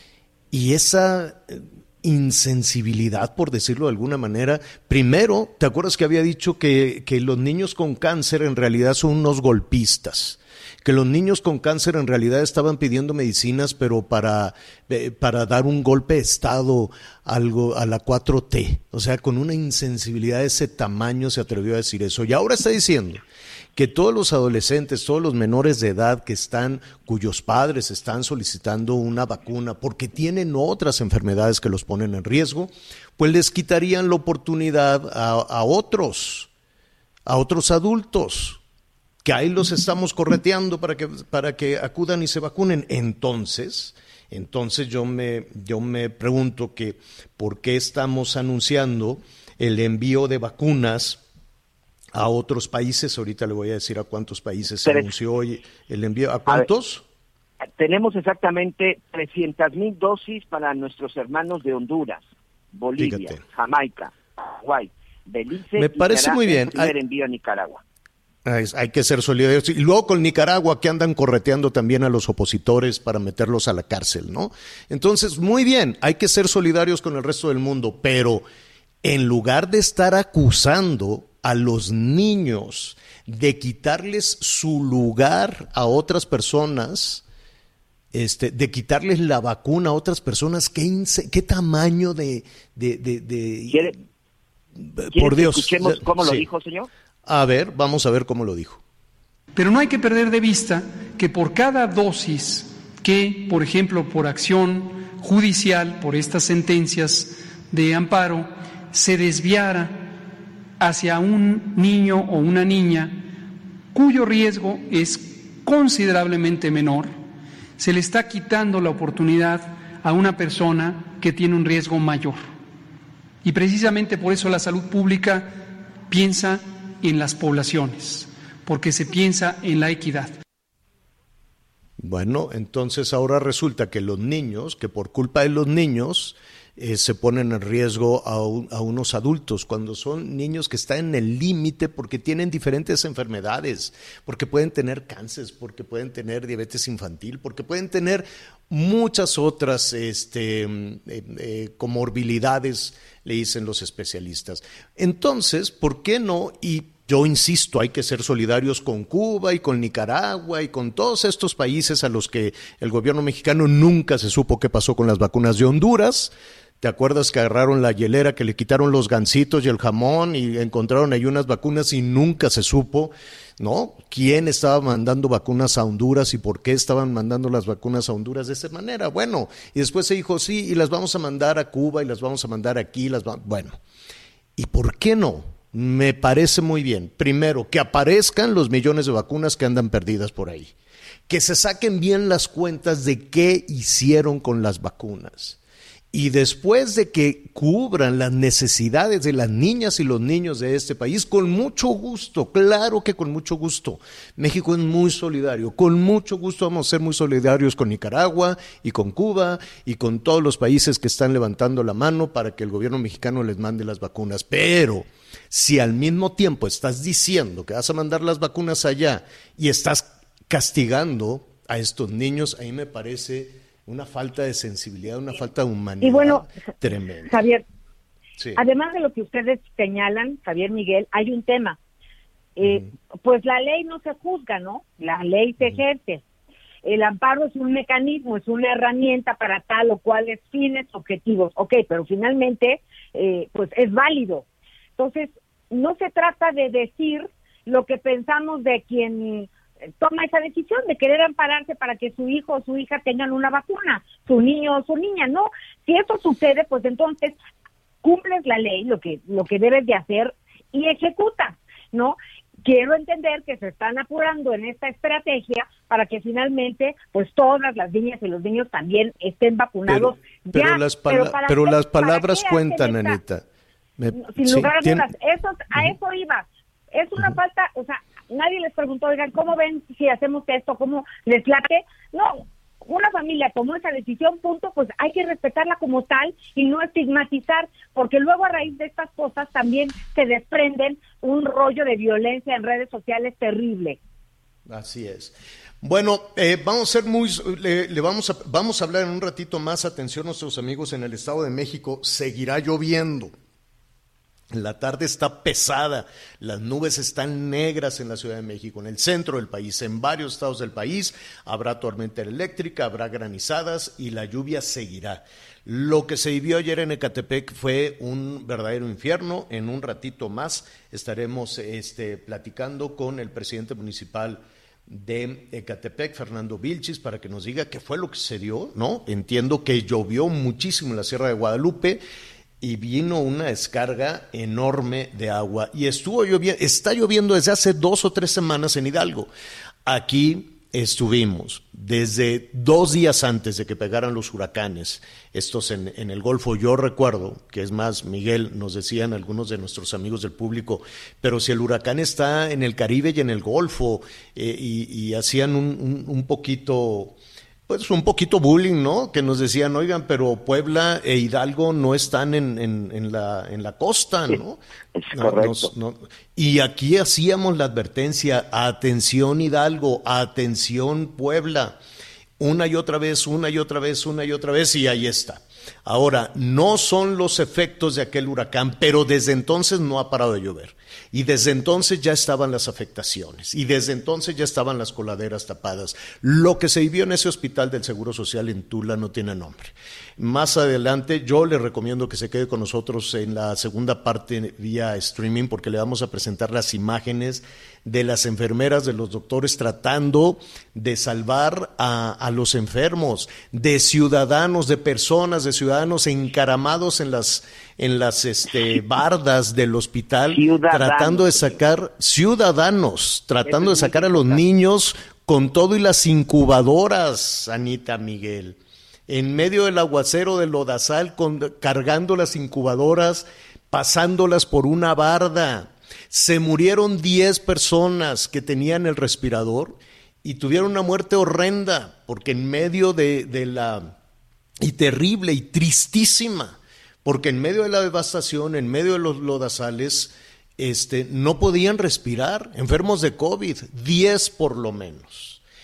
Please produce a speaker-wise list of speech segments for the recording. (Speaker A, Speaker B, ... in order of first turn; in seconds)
Speaker A: 0.5-23.2, 23.8-36.5, 37.3-38.6, 39.2-51.2, 52.1-57.0, 63.0-63.4, 65.8-66.9, 68.5-78.5, 79.0-87.2, 88.1-93.9, 94.8-96.5, 97.3-98.8, 132.0-183.8, 184.6-190.7, 191.3-195.6, 196.1-227.3, 232.6-232.9, 269.9-273.5, 274.0-275.1, 294.7-303.3, 304.5-332.0, 332.6-339.3, 339.9-357.2, 357.7-364.6, 365.1-371.8, 372.4-434.0, 434.6-445.4
Speaker B: 54.9-55.1, 57.6-67.8, 95.1-96.9, 364.9-365.7, 410.3-411.6, 413.4-414.4
Speaker C: 99.5-110.0, 110.8-113.2, 113.9-117.2, 117.8-122.4, 123.4-125.6, 126.1-130.3
Speaker D: 226.0-226.5, 227.3-227.7, 228.6-231.8, 232.6-236.2, 236.8-244.4, 245.0-249.5, 250.0-257.4, 258.0-273.2, 274.1-294.0